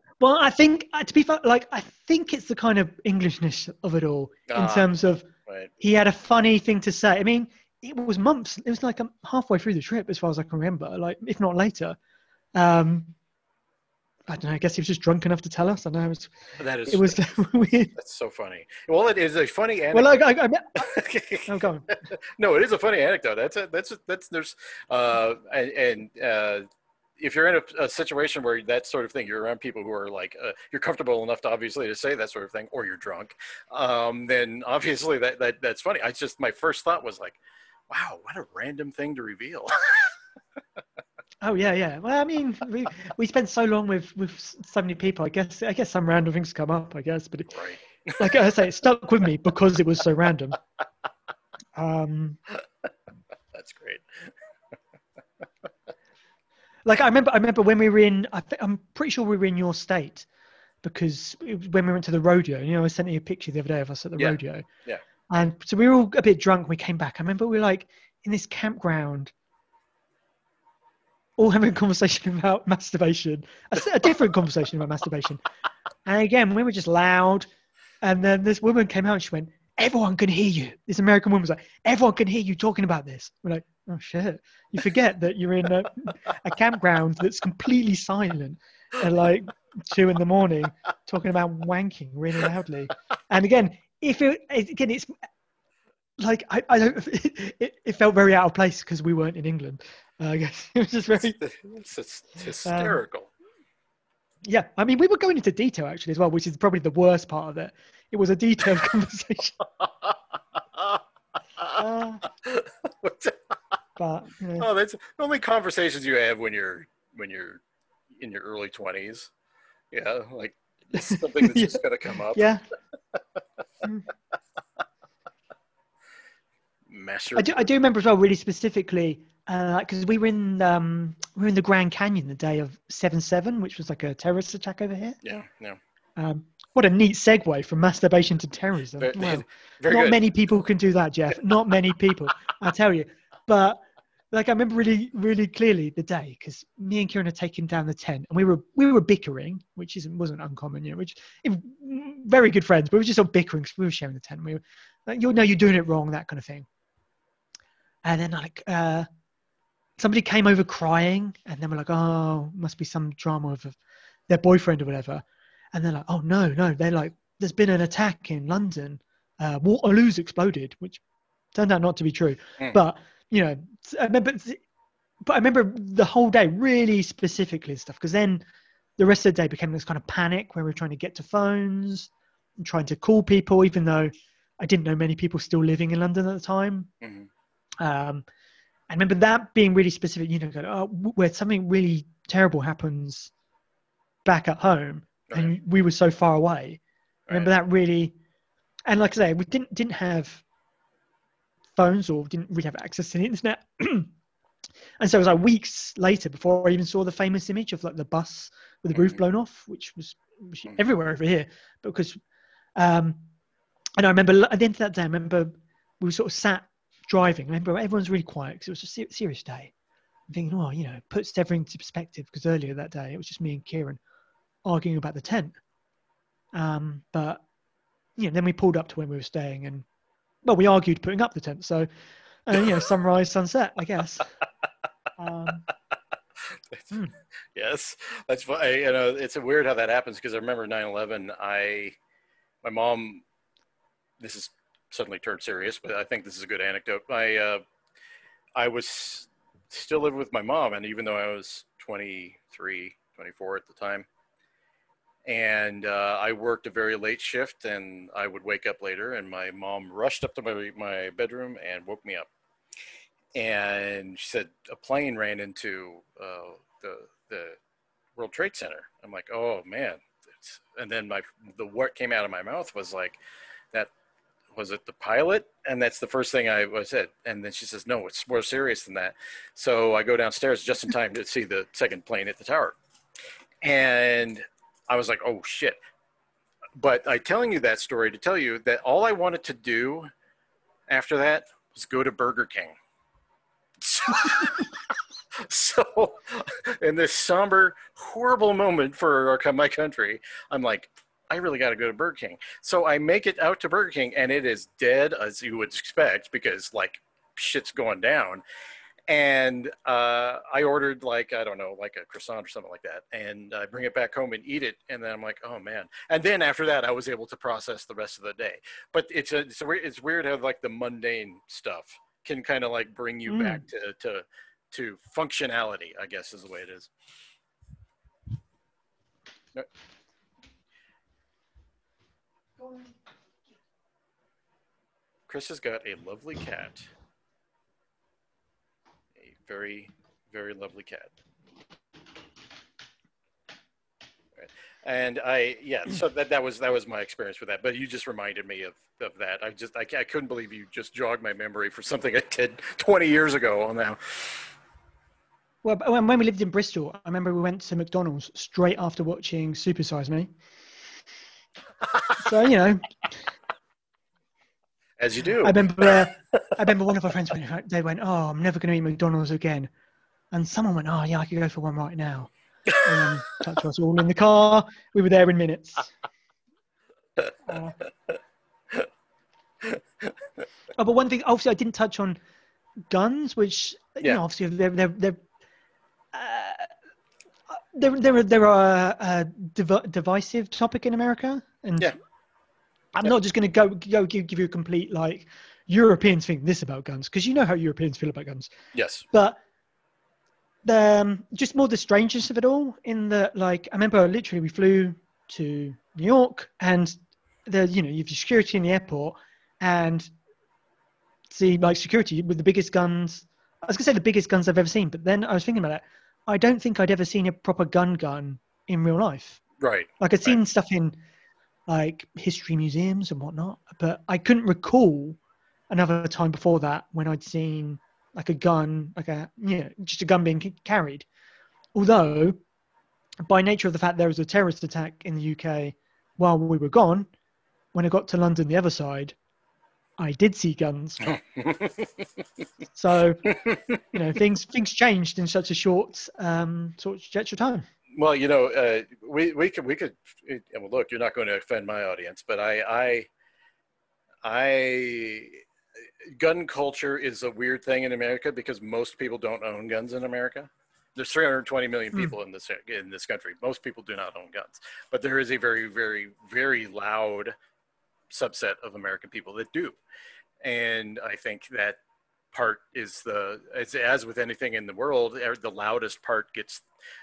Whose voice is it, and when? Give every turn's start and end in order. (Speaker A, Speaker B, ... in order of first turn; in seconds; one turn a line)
Speaker A: 0.2-5.3
Speaker B: 4.5-4.9
Speaker B: 5.5-5.7
Speaker A: 5.8-12.0
Speaker A: 12.5-13.1
Speaker A: 14.3-16.3
Speaker B: 16.6-26.7
Speaker A: 16.9-17.9
Speaker A: 19.9-20.9
Speaker A: 21.4-21.9
Speaker B: 27.2-40.1
Speaker A: 41.4-47.5
Speaker B: 47.5-48.4
Speaker A: 48.2-50.6
Speaker A: 51.8-52.4
Speaker B: 53.5-54.3
Speaker A: 56.8-60.3
Speaker A: 60.8-64.7
Speaker B: 64.2-65.0
Speaker A: 65.3-69.3
Speaker A: 71.4-75.4
Speaker A: 76.0-77.5
Speaker A: 78.0-95.1
Speaker A: 96.2-101.4
Speaker B: 101.2-103.3
Speaker A: 102.6-103.0
Speaker A: 104.4-109.6
Speaker B: 109.8-110.2
Speaker B: 110.7-111.0
Speaker A: 111.7-112.2
Speaker B: 112.4-113.5
Speaker A: 114.0-114.7
Speaker B: 114.6-117.6
Speaker B: 118.1-119.3
Speaker B: 119.9-122.5
Speaker A: 121.0-121.8
Speaker A: 122.3-122.6
Speaker B: 126.9-127.5
Speaker A: 127.3-135.2
Speaker B: 135.2-135.8
Speaker A: 136.2-143.8
Speaker B: 139.0-140.2
Speaker A: 144.3-156.7
Speaker A: 158.0-159.1
Speaker A: 160.0-163.8
Speaker A: 164.3-171.0
Speaker A: 171.5-174.6
Speaker A: 175.2-178.4
Speaker A: 179.0-186.9
Speaker B: 187.0-187.3
Speaker A: 187.8-188.2
Speaker A: 188.9-193.3
Speaker A: 194.2-198.1
Speaker A: 198.9-200.4
Speaker A: 201.8-204.1
Speaker A: 205.0-212.2
Speaker A: 212.8-213.3
Speaker A: 214.0-219.7
Speaker A: 220.3-224.0
Speaker A: 224.6-225.6
Speaker A: 226.5-227.4
Speaker A: 228.2-229.8
Speaker A: 230.4-231.9
Speaker A: 232.4-234.3
Speaker A: 235.2-235.6
Speaker B: 236.4-236.9
Speaker B: 237.5-241.9
Speaker B: 242.6-243.2
Speaker B: 244.2-247.6
Speaker B: 248.6-254.1
Speaker B: 255.2-262.3
Speaker B: 263.3-267.6
Speaker B: 268.2-273.2
Speaker B: 274.5-282.8
Speaker B: 283.6-285.8
Speaker B: 286.7-290.1
Speaker B: 290.9-292.7
Speaker B: 293.8-308.4
Speaker B: 309.1-326.9
Speaker A: 323.3-323.6
Speaker A: 332.6-332.9
Speaker B: 335.3-336.9
Speaker B: 339.1-341.1
Speaker B: 344.4-354.5
Speaker A: 355.6-360.3
Speaker A: 362.2-362.9
Speaker B: 365.0-366.6
Speaker A: 365.4-369.7
Speaker A: 370.3-375.9
Speaker A: 377.5-377.8
Speaker B: 379.6-380.1
Speaker A: 380.8-382.2
Speaker A: 382.9-385.2
Speaker A: 386.1-386.7
Speaker A: 387.7-391.9
Speaker A: 392.9-398.5
Speaker B: 398.7-399.1
Speaker A: 399.1-399.4
Speaker A: 400.6-410.1
Speaker A: 411.3-419.4
Speaker B: 419.6-420.4
Speaker A: 420.0-421.0
Speaker A: 421.7-425.2
Speaker A: 425.7-431.1
Speaker A: 431.7-432.4
Speaker A: 433.2-437.1
Speaker A: 437.7-439.1
Speaker A: 440.0-441.1
Speaker B: 441.1-442.1
Speaker A: 442.7-447.6
Speaker B: 443.4-443.8
Speaker B: 447.9-453.1
Speaker B: 454.2-455.4
Speaker B: 456.0-467.4
Speaker B: 468.1-469.8
Speaker B: 470.4-471.8
Speaker B: 472.3-476.6